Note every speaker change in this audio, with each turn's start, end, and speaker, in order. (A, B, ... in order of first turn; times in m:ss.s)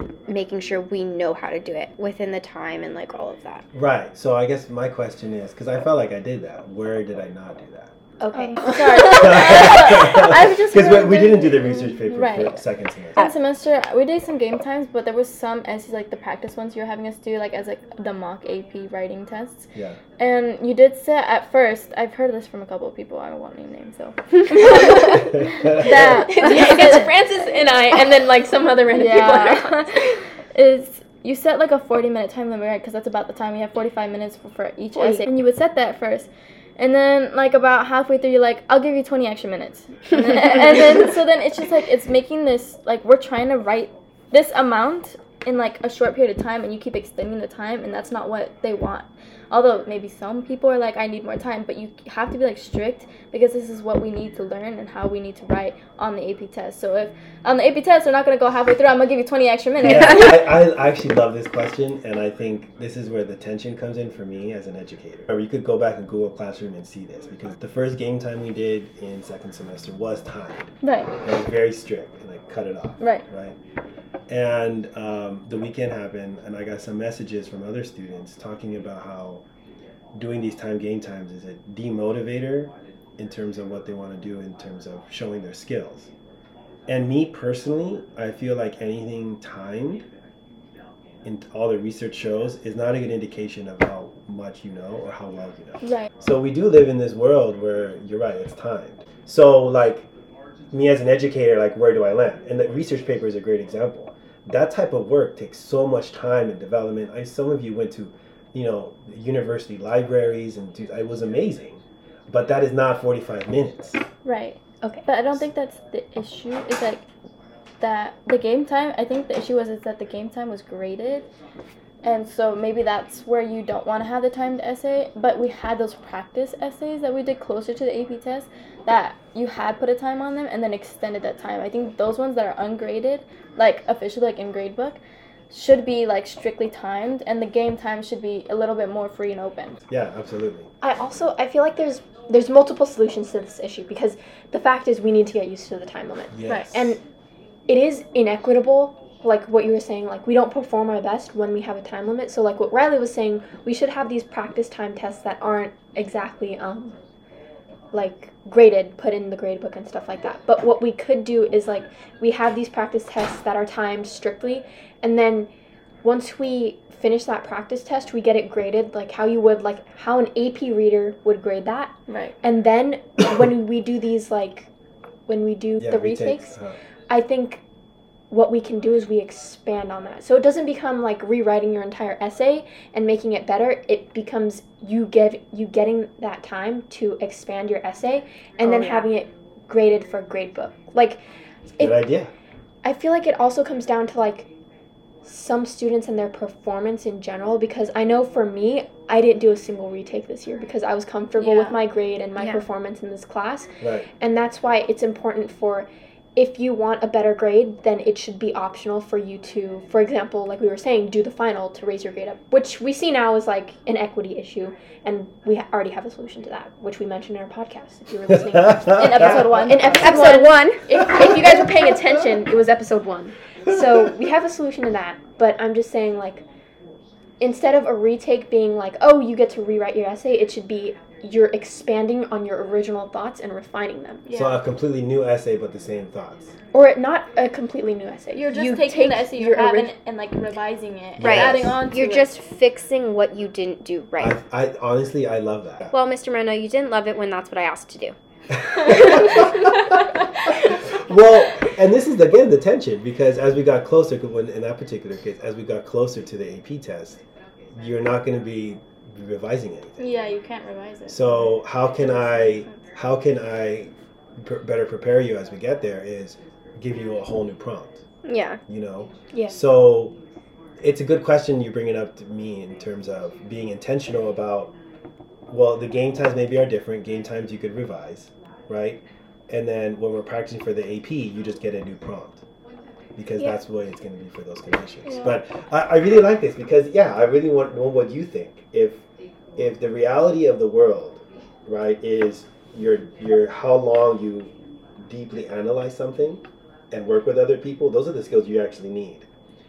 0:00.3-0:03.6 A
0:03.7-0:08.0 B
0:08.2-0:09.2 C
0:08.6-0:12.6 D
0:09.0-0:13.2 B
0:13.2-0:27.1 D
0:19.7-0:20.0 B
0:24.7-0:25.0 C
0:25.6-0:25.8 B
0:25.8-0:30.2 C
0:28.9-1:00.3 D
0:34.9-0:35.3 C
0:59.8-1:13.6 B
1:10.8-1:11.1 D
1:14.3-1:19.4 B
1:20.1-1:26.1 B
1:26.9-1:30.1 B
1:31.2-1:40.1 B
1:35.8-1:36.1 D
1:40.7-1:54.0 B
1:54.2-1:57.1 D
1:57.8-2:01.3 D
2:02.0-2:15.0 D
2:15.5-2:19.8 D
2:19.9-2:20.7 B
2:20.8-2:27.0 C
2:26.3-2:27.0 B
2:26.5-2:26.7 D
2:27.7-2:37.0 C
2:37.9-2:45.5 C
2:46.0-2:54.7 C
2:52.1-2:52.4 D
2:55.3-2:56.6 C
2:55.8-2:56.8 B
2:57.1-2:57.6 C
2:58.3-3:11.2 C
3:08.6-3:09.1 A
3:11.8-3:12.3 B
3:12.8-3:14.5 C
3:15.2-3:46.4 C
3:21.4-3:21.8 D
3:22.4-3:22.6 A
3:23.8-3:24.1 B
3:38.5-3:40.2 B
3:38.9-3:40.5 D
3:40.0-3:40.6 A
3:47.4-3:54.3 C
3:54.3-3:54.6 D
3:54.3-3:56.6 B
3:56.7-3:59.9 C
3:58.4-4:02.3 D
4:01.2-4:01.8 B
4:01.2-4:04.4 A
4:04.2-4:05.9 B
4:05.9-4:08.2 A
4:08.5-4:09.9 B
4:08.9-4:09.5 A
4:10.9-4:17.2 B
4:17.7-4:20.0 B
4:20.0-4:22.8 D
4:21.1-4:28.0 B
4:28.2-4:28.6 A
4:28.7-4:30.2 B
4:29.3-4:29.6 C
4:30.8-4:34.8 B
4:35.5-4:42.4 B
4:43.2-4:49.0 B
4:49.6-4:59.3 B